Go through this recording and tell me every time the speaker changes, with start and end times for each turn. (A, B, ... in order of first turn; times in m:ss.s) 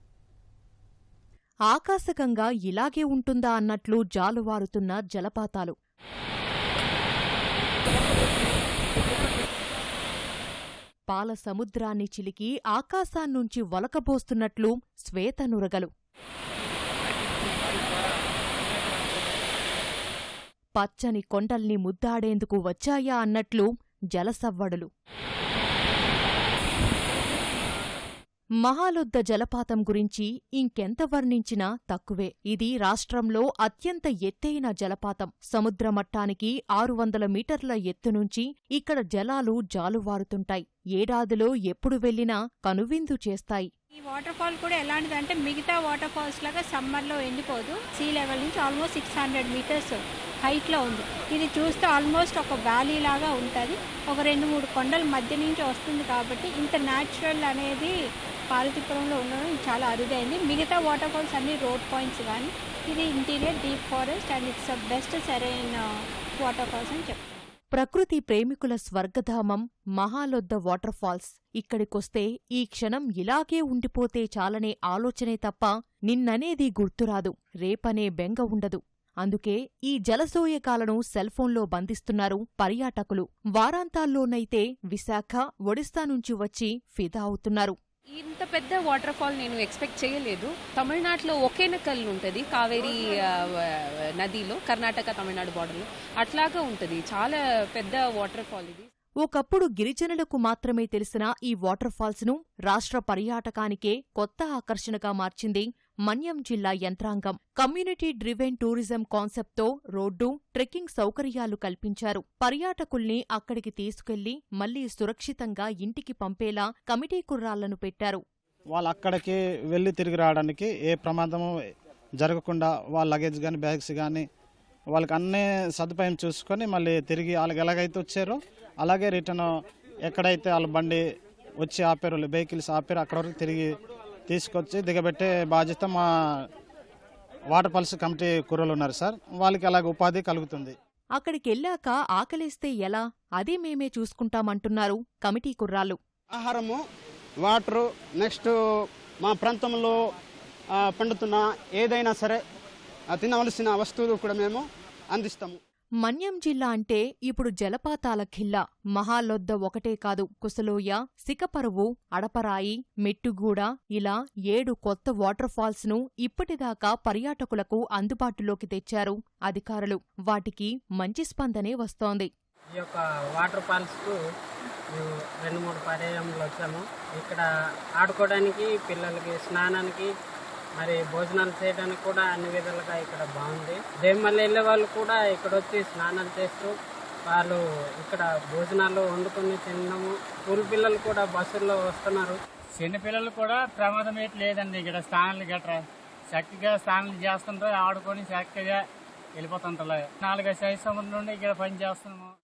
0:01.7-0:05.7 A
0:11.1-0:15.9 A
0:20.8-0:24.9 A
0:28.6-0:43.7 A
0:44.0-0:57.9 B
0:58.5-1:07.4 B
1:07.7-1:27.8 A
1:28.1-1:33.6 C
1:34.2-1:38.9 C
1:39.2-1:58.2 A
1:58.7-2:01.5 D
2:02.2-2:04.2 D
2:04.9-2:09.5 D
2:10.0-2:11.0 D
2:11.6-2:13.7 D
2:14.3-2:16.1 D
2:17.5-2:20.7 D
2:21.2-2:26.0 A
2:26.3-2:26.8 E
2:27.4-2:28.6 E
2:29.2-2:30.0 E
2:30.7-2:32.4 E
2:33.1-2:35.6 E
2:36.0-2:52.3 A
2:52.7-2:54.2 F
2:54.9-2:57.4 F
2:58.0-3:00.1 F
3:00.8-3:06.7 F
3:07.3-3:12.4 F
3:12.8-3:18.8 G
3:19.4-3:22.3 G